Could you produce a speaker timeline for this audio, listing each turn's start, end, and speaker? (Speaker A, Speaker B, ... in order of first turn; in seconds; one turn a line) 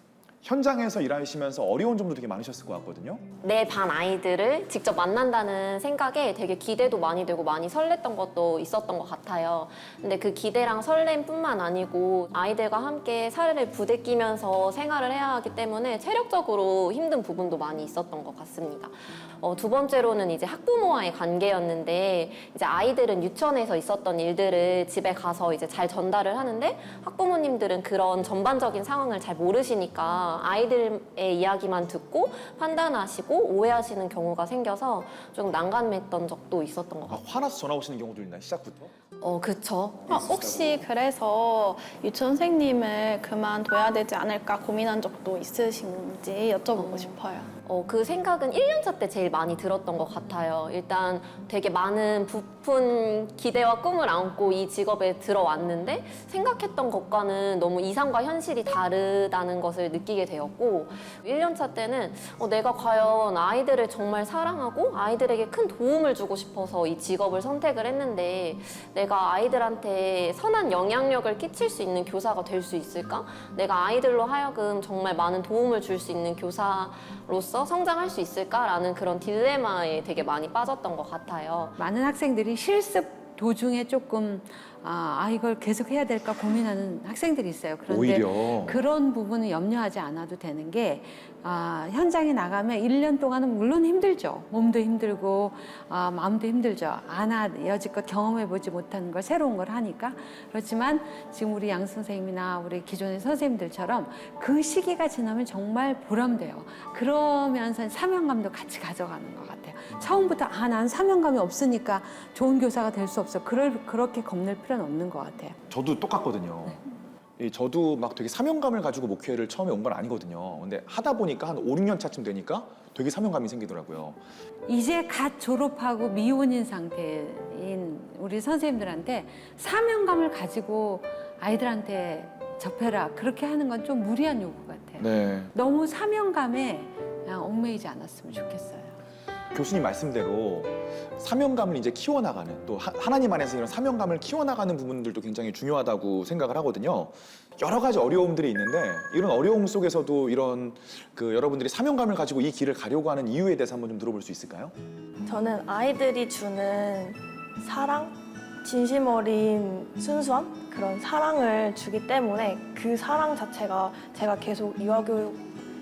Speaker A: 0.4-3.2
Speaker B: 3.4-37.2
Speaker A: 37.1-38.9
Speaker B: 39.2-40.2
Speaker C: 40.1-47.5
Speaker A: 40.1-40.8
Speaker B: 46.8-47.1
Speaker B: 47.6-81.8
Speaker D: 81.8-115.6
Speaker A: 87.9-88.8
Speaker A: 115.7-116.8
Speaker A: 117.4-124.2
Speaker D: 124.7-139.0
Speaker A: 135.0-135.5
Speaker A: 139.5-154.7
Speaker E: 155.2-165.4